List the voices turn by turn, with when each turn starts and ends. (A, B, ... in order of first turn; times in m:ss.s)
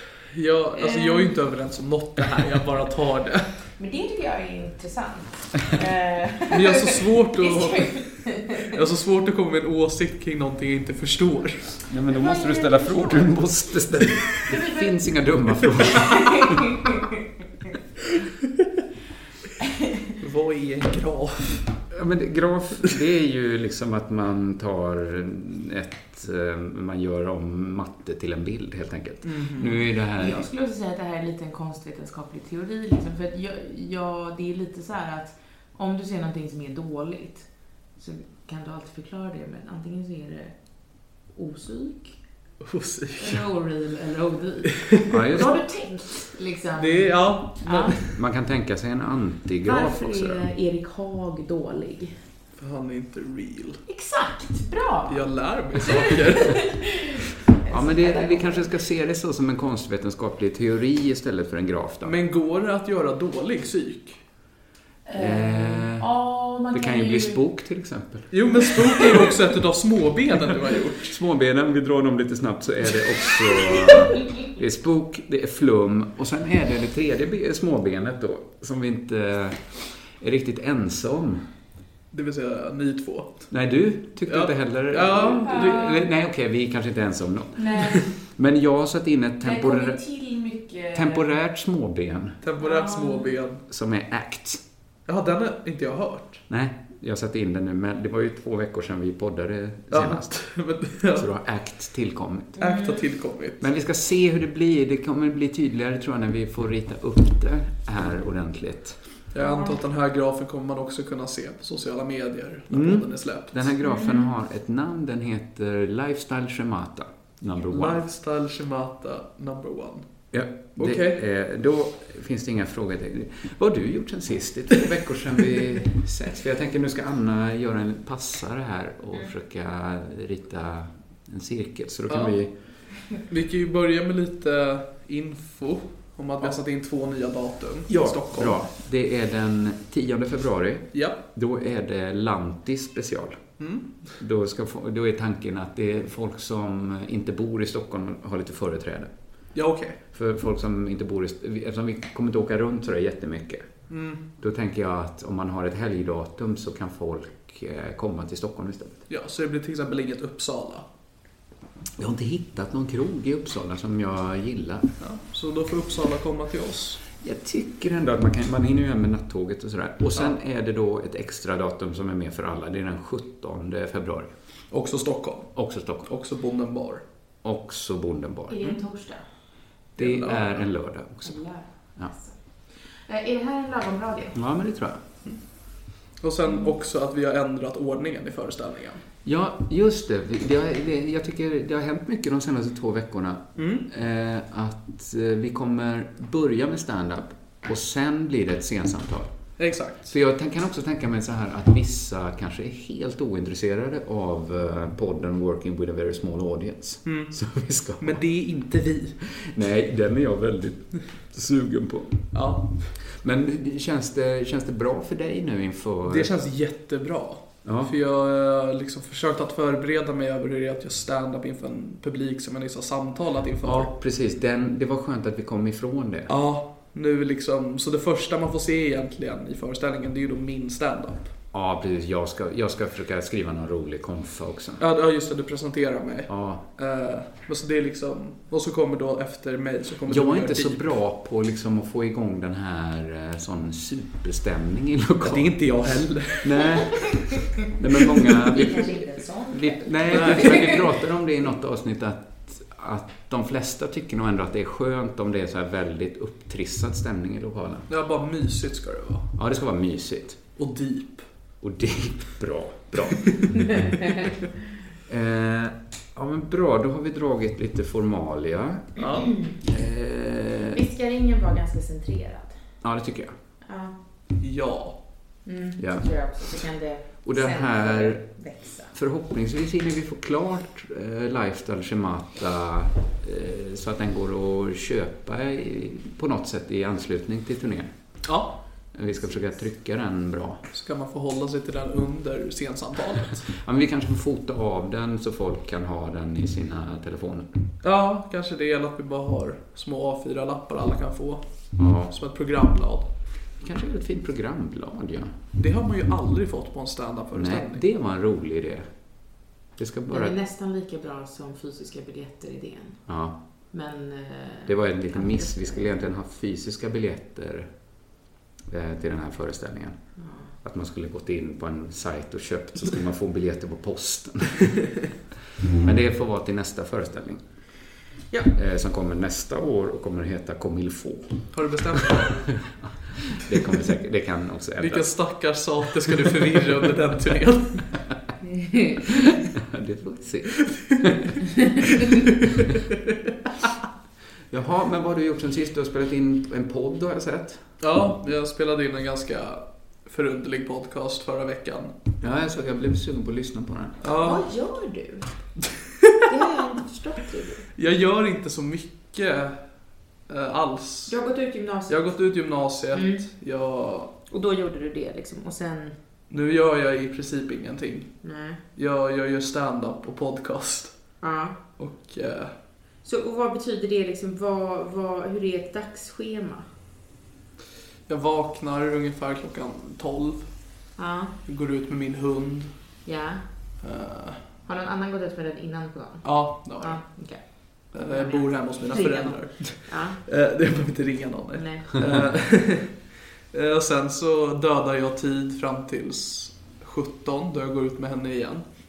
0:00.3-0:03.5 A
0:00.8-0:01.4 B
0:03.8-0:08.5 B
0:06.5-0:11.7 A
0:11.9-0:16.6 C
0:12.1-0:13.4 B
0:14.4-0:15.0 B
0:15.9-0:16.9 B
0:20.2-0:21.8 A
0:21.9-0:30.5 C
0:29.2-0:29.8 A
0:30.2-0:42.2 B
0:42.6-0:43.5 A
0:43.2-0:48.0 B
0:45.1-0:45.7 C
0:46.8-0:48.1 A
0:48.0-0:50.4 C
0:49.6-0:52.2 B
0:52.6-0:53.8 A
0:53.9-0:57.0 B
0:55.1-0:57.0 A
0:57.6-0:58.7 B
0:57.7-1:02.1 C
1:02.0-1:04.2 A
1:05.0-1:07.4 B
1:05.1-1:06.1 C
1:06.7-1:08.4 C
1:08.3-1:11.1 A
1:11.0-1:21.4 C
1:22.1-1:23.5 A
1:23.5-1:30.0 C
1:24.3-1:25.9 A
1:25.2-1:26.0 B
1:27.6-1:28.0 B
1:29.4-1:31.3 B
1:30.9-1:32.4 C
1:32.4-1:33.6 A
1:32.6-1:33.4 B
1:33.7-1:34.6 C
1:35.0-1:36.4 A
1:36.5-1:42.6 C
1:39.9-1:41.3 A
1:42.6-1:43.1 B
1:42.6-1:43.6 A
1:43.6-1:49.1 C
1:49.3-1:53.7 A
1:49.4-1:49.8 B
1:52.7-1:58.0 C
1:53.8-1:54.3 B
1:57.7-2:01.2 A
2:00.3-2:12.5 C
2:12.1-2:18.6 A
2:17.9-2:23.6 C
2:20.9-2:21.2 A
2:23.6-2:24.1 A
2:24.2-2:29.1 C
2:29.5-2:30.0 A
2:30.1-2:39.0 C
2:33.9-2:34.2 A
2:39.1-2:40.8 A
2:42.0-2:44.9 C
2:45.0-2:47.0 A
2:47.2-2:54.3 C
2:54.7-2:57.0 A
2:55.5-2:56.1 C
2:57.4-2:58.6 C
2:58.5-2:59.2 B
3:00.0-3:00.6 A
3:00.0-3:02.1 C
3:01.2-3:04.4 B
3:04.3-3:05.0 C
3:05.2-3:09.0 A
3:09.2-3:28.2 C
3:13.6-3:13.9 A
3:19.6-3:20.1 A
3:27.0-3:29.2 A
3:29.2-3:36.3 C
3:32.3-3:33.0 A
3:36.0-3:43.9 A
3:37.6-3:37.9 C
3:43.6-3:46.3 C
3:46.3-3:51.3 A
3:51.5-3:54.8 C
3:54.8-4:00.9 A
3:56.3-3:56.6 C
4:00.1-4:17.9 C
4:05.2-4:06.6 A
4:08.5-4:10.8 B
4:10.1-4:10.7 A
4:17.9-4:19.4 A
4:19.4-4:20.4 C
4:20.6-4:21.3 A
4:21.6-4:23.8 C
4:25.0-4:29.0 C
4:29.0-4:29.3 A
4:29.6-4:30.8 C
4:30.7-4:32.8 B
4:32.8-4:33.3 C
4:33.6-4:33.9 B
4:34.4-4:35.4 A
4:35.4-4:38.9 B
4:35.8-4:36.5 C
4:37.2-4:38.3 C
4:38.8-4:48.2 C
4:48.2-4:48.6 A
4:48.9-4:50.6 C
4:50.7-4:53.5 A
4:53.5-4:57.5 C
4:57.8-5:03.1 A
5:01.8-5:02.1 C
5:03.6-5:05.3 C
5:05.6-5:07.8 A
5:07.3-5:10.4 C
5:10.1-5:16.0 B
5:13.1-5:13.4 C
5:14.6-5:17.7 C
5:18.7-5:25.1 C
5:20.2-5:20.5 B
5:25.7-5:27.4 C
5:28.5-5:31.8 C
5:31.5-5:32.6 A
5:32.7-5:35.6 C
5:34.8-5:38.0 A
5:38.6-5:38.9 B
5:39.6-5:41.3 C
5:40.7-5:41.0 A
5:44.5-5:47.6 C
5:47.8-5:51.9 A
5:52.2-5:54.0 C
5:54.0-5:54.4 A
5:54.2-5:55.3 B
5:56.3-5:57.6 B
5:57.8-6:01.2 A
6:01.1-6:02.3 B
6:01.9-6:04.1 A
6:02.9-6:03.2 B
6:04.3-6:06.0 B
6:06.3-6:12.6 A
6:08.2-6:08.6 B
6:11.2-6:11.6 B
6:13.0-6:16.7 B
6:18.1-6:20.9 A
6:21.0-6:21.3 B
6:21.4-6:22.9 A
6:23.0-6:23.4 B
6:23.8-6:24.5 A
6:24.6-6:30.2 B
6:26.2-6:38.6 A
6:31.5-6:31.8 B